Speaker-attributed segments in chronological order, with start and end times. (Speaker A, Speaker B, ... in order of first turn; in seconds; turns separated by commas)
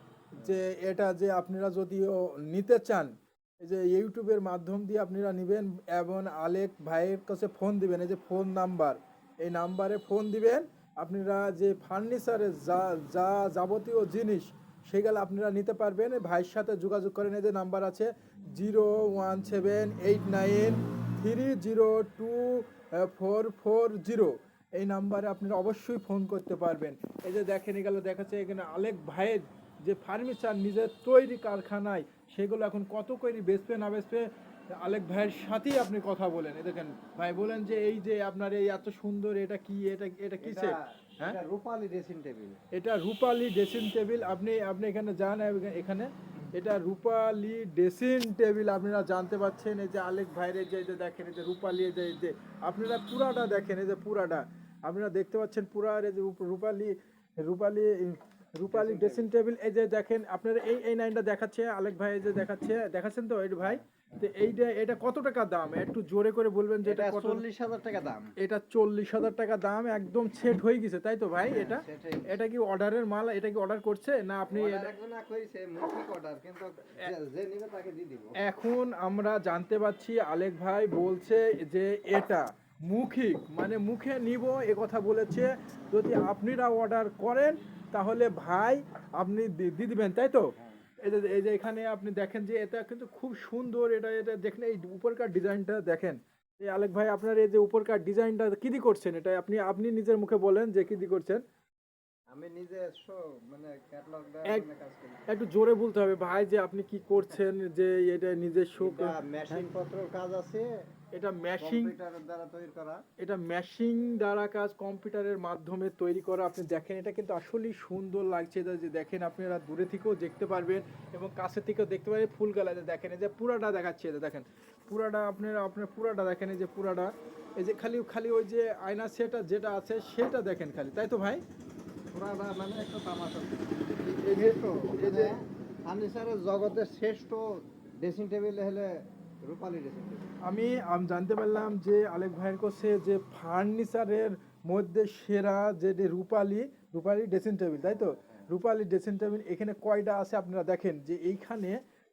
Speaker A: 0.3-41.4, Speaker B: 40.4-42.6, Speaker A: 42.7-67.4, Speaker B: 58.7-59.3, Speaker B: 63.6-64.3, Speaker B: 66.8-68.3, Speaker A: 68.4-74.9, Speaker B: 71.5-72.4, Speaker B: 74.5-78.3, Speaker A: 78.4-101.4, Speaker B: 102.3-105.2, Speaker A: 105.3-109.7, Speaker B: 108.8-110.7, Speaker A: 111.1-111.9, Speaker B: 111.6-113.0, Speaker A: 113.2-131.4, Speaker B: 132.1-140.4, Speaker A: 134.3-135.3, Speaker A: 140.4-151.8, Speaker B: 148.0-148.5